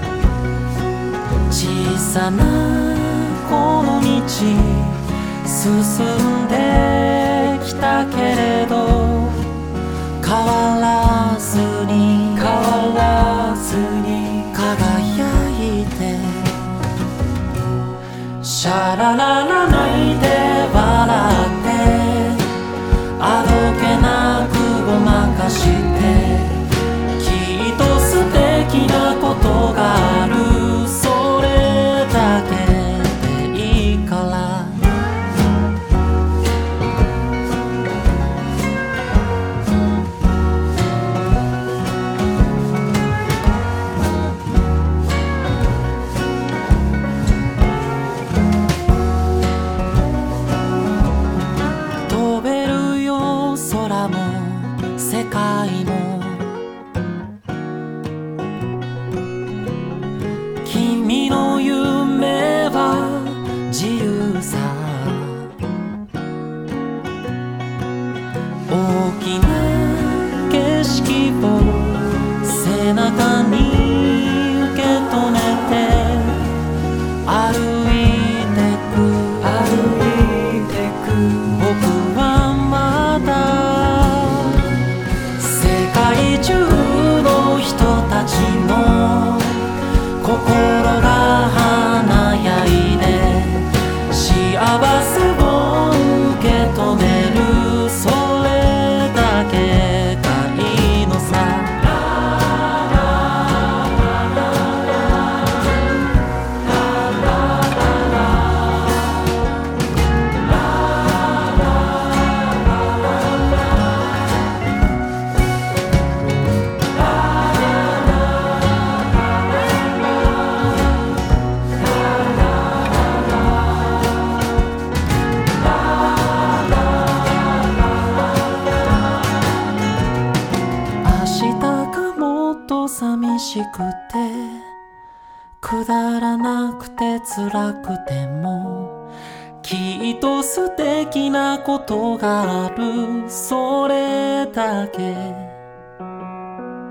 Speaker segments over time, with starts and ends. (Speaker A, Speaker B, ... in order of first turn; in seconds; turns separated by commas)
Speaker A: 1.5-9.6, Speaker A: 10.2-16.8, Speaker A: 18.4-22.5, Speaker A: 23.2-34.9, Speaker A: 52.1-56.5, Speaker A: 60.6-65.5, Speaker A: 68.7-76.5, Speaker A: 77.2-84.8, Speaker A: 85.4-102.0, Speaker A: 131.0-134.7, Speaker A: 135.6-139.0, Speaker A: 139.6-145.6